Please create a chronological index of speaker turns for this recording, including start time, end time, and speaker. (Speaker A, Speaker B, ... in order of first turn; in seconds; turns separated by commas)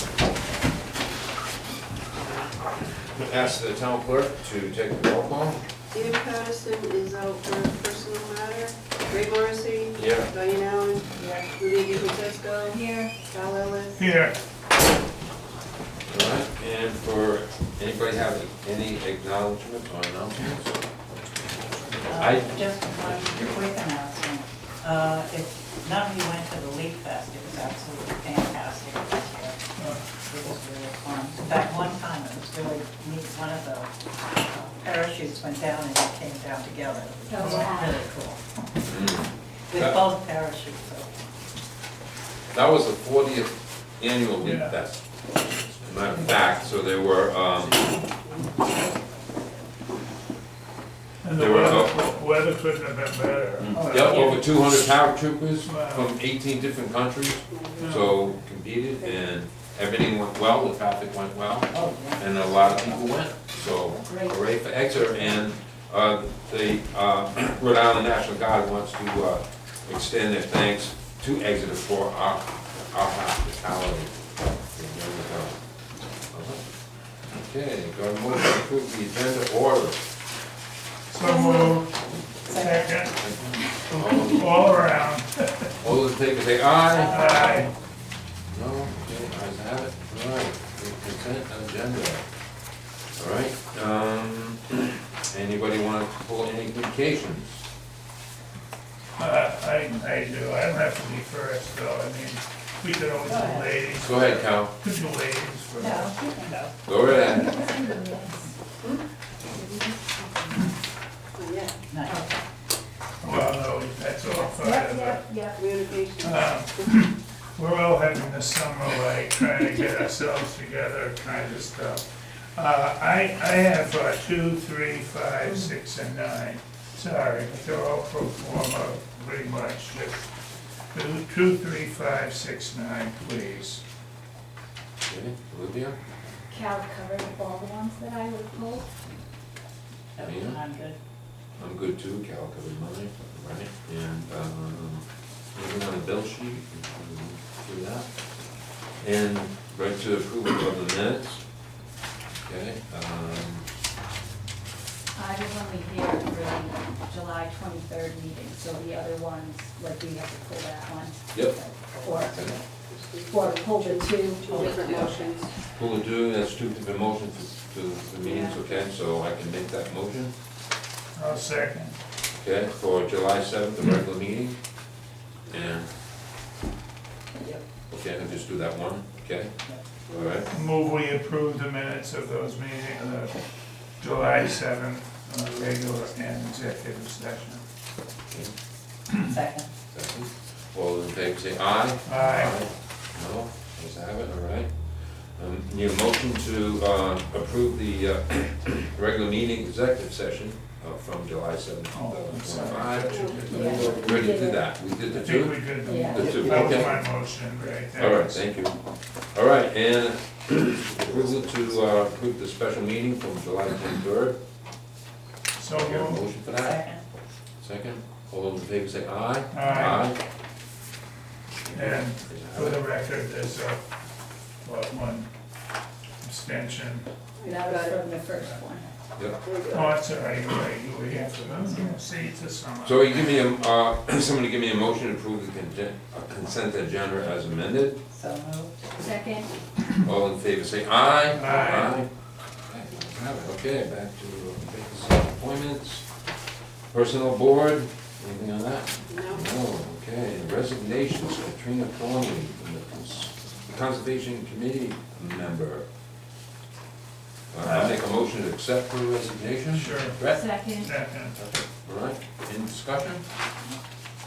Speaker A: 3.0-5.6, Speaker B: 5.9-14.1, Speaker A: 9.9-10.3, Speaker C: 11.1-11.5, Speaker D: 12.7-13.1, Speaker E: 14.0-14.4, Speaker A: 16.1-20.8, Speaker C: 22.0-29.5, Speaker A: 22.0-23.5, Speaker C: 30.2-33.9, Speaker C: 34.5-38.4, Speaker D: 37.3-38.0, Speaker A: 38.9-40.0, Speaker C: 39.7-41.1, Speaker A: 42.5-45.0, Speaker E: 44.4-44.8, Speaker E: 45.4-46.2, Speaker A: 45.8-47.8, Speaker C: 48.4-49.4, Speaker E: 51.2-54.2, Speaker A: 51.4-52.0, Speaker A: 53.6-74.2, Speaker C: 53.7-54.5, Speaker E: 55.6-56.1, Speaker B: 57.5-58.1, Speaker E: 57.8-58.1, Speaker C: 61.7-63.2, Speaker D: 64.0-64.4, Speaker A: 74.7-75.6, Speaker A: 76.3-76.7, Speaker A: 77.3-80.0, Speaker E: 81.1-81.9, Speaker D: 81.2-81.8, Speaker C: 81.2-81.7, Speaker C: 82.4-83.1, Speaker E: 82.5-83.1, Speaker A: 83.2-84.7, Speaker E: 84.3-85.7, Speaker A: 85.8-87.7, Speaker C: 86.9-87.7, Speaker E: 87.1-87.7, Speaker A: 88.5-92.2, Speaker A: 93.2-97.6, Speaker E: 99.2-106.1, Speaker C: 103.2-103.7, Speaker A: 104.0-104.8, Speaker C: 105.8-108.1, Speaker A: 106.8-107.7, Speaker D: 107.3-108.5, Speaker D: 109.5-110.6, Speaker B: 111.3-111.8, Speaker C: 111.9-112.2, Speaker D: 112.1-112.4, Speaker E: 113.2-115.2, Speaker D: 114.2-115.6, Speaker B: 115.5-116.9, Speaker E: 116.2-130.2, Speaker E: 130.9-133.8, Speaker A: 135.1-136.0, Speaker D: 136.5-138.9, Speaker C: 140.2-140.9, Speaker A: 140.2-140.6, Speaker A: 141.6-148.1, Speaker A: 149.0-151.4, Speaker A: 152.4-153.7, Speaker D: 155.1-162.4, Speaker C: 162.1-162.6, Speaker B: 162.9-165.5, Speaker D: 163.2-165.5, Speaker A: 165.7-170.3, Speaker B: 168.2-168.8, Speaker E: 171.1-172.0, Speaker A: 172.3-174.6, Speaker A: 175.5-175.9, Speaker A: 177.9-179.5, Speaker B: 180.1-180.5, Speaker A: 180.1-180.5, Speaker E: 180.5-183.4, Speaker E: 184.0-187.6, Speaker C: 189.2-189.7, Speaker A: 189.9-207.0, Speaker E: 192.0-192.5, Speaker E: 201.9-203.8, Speaker B: 203.1-204.2, Speaker D: 203.5-204.7, Speaker E: 205.2-208.3, Speaker D: 205.8-206.3, Speaker B: 206.2-206.5, Speaker A: 208.0-208.8, Speaker A: 209.3-214.4, Speaker E: 215.6-216.2, Speaker A: 215.7-216.8, Speaker C: 216.5-217.0, Speaker A: 217.6-220.2, Speaker E: 219.5-220.1, Speaker A: 221.7-222.8, Speaker E: 221.7-223.8, Speaker E: 224.6-225.3, Speaker E: 226.2-227.1, Speaker B: 227.4-228.0, Speaker D: 227.4-228.9, Speaker A: 229.2-229.4, Speaker B: 229.4-230.0, Speaker E: 229.7-233.4, Speaker C: 231.5-231.8, Speaker A: 232.8-238.0, Speaker C: 238.1-238.7, Speaker D: 238.9-239.5, Speaker A: 240.0-242.1, Speaker E: 241.3-241.9, Speaker A: 242.7-246.1, Speaker A: 246.9-255.8, Speaker B: 249.1-249.5, Speaker A: 257.5-263.2, Speaker E: 257.6-258.0, Speaker E: 259.7-260.2, Speaker D: 260.2-260.9, Speaker E: 260.8-261.4